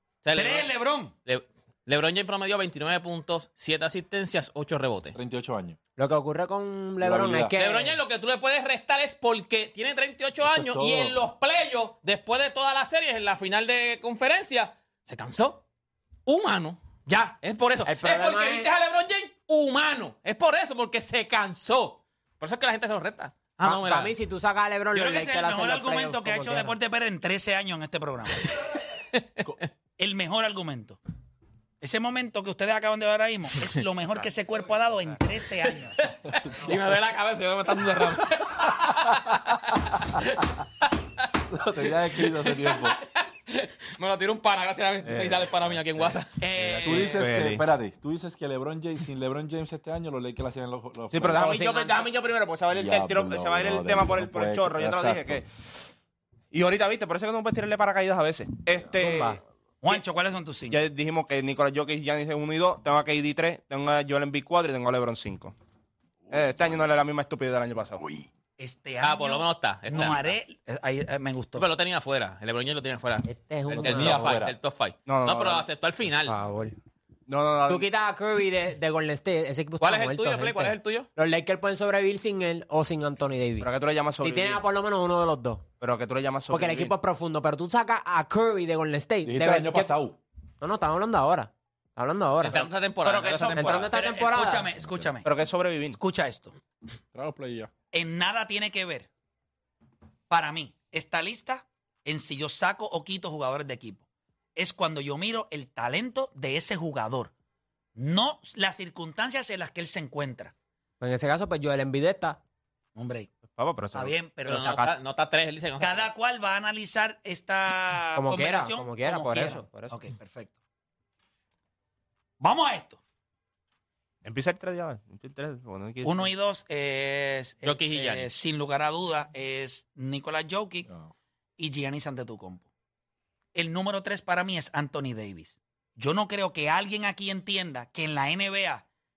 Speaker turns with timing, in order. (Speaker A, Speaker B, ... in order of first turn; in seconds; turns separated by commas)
Speaker A: 0.2-0.7, Speaker B: 0.3-1.1, Speaker A: 1.2-5.2, Speaker C: 5.1-5.8, Speaker D: 6.0-8.0, Speaker C: 7.0-7.5, Speaker A: 7.6-15.6, Speaker C: 10.4-11.2, Speaker A: 16.2-24.1, Speaker D: 17.8-18.7, Speaker D: 23.6-26.7, Speaker B: 24.9-28.5, Speaker A: 29.2-29.4, Speaker B: 30.0-31.0, Speaker B: 31.8-36.0, Speaker A: 36.0-40.4, Speaker C: 39.0-39.4, Speaker C: 41.5-43.0, Speaker A: 42.1-46.3, Speaker E: 45.0-45.5, Speaker B: 46.4-47.3, Speaker C: 46.6-51.5, Speaker E: 46.8-47.6, Speaker E: 51.1-55.5, Speaker D: 51.4-52.1, Speaker C: 52.7-55.4, Speaker E: 56.5-60.0, Speaker D: 59.0-59.4, Speaker B: 59.8-60.8, Speaker E: 60.7-65.5, Speaker E: 66.3-68.1, Speaker B: 68.6-71.7, Speaker A: 69.0-70.3, Speaker A: 71.6-76.3, Speaker D: 73.2-74.4, Speaker C: 73.7-74.6, Speaker E: 75.0-75.7, Speaker D: 76.2-76.7, Speaker E: 77.3-77.9, Speaker D: 77.7-83.7, Speaker A: 79.8-81.1, Speaker E: 83.6-84.6, Speaker D: 84.2-85.7, Speaker E: 85.8-86.9, Speaker D: 86.5-89.9, Speaker C: 89.2-90.2, Speaker D: 90.6-92.6, Speaker A: 92.4-93.9, Speaker E: 93.0-93.9, Speaker D: 93.5-94.7, Speaker B: 93.9-95.3, Speaker E: 95.2-96.0, Speaker B: 96.0-96.5, Speaker C: 97.1-97.7, Speaker B: 97.9-99.1, Speaker B: 100.3-104.0, Speaker B: 104.5-107.3, Speaker B: 108.0-110.5, Speaker D: 111.0-112.4, Speaker B: 113.0-113.3, Speaker E: 113.5-114.1, Speaker B: 113.9-114.9, Speaker A: 114.5-116.1, Speaker B: 115.8-120.5, Speaker D: 118.2-120.0, Speaker B: 122.4-123.0, Speaker E: 124.2-126.3, Speaker B: 126.0-130.9, Speaker A: 127.6-128.3, Speaker C: 130.8-131.1, Speaker B: 131.6-132.7, Speaker B: 133.5-138.8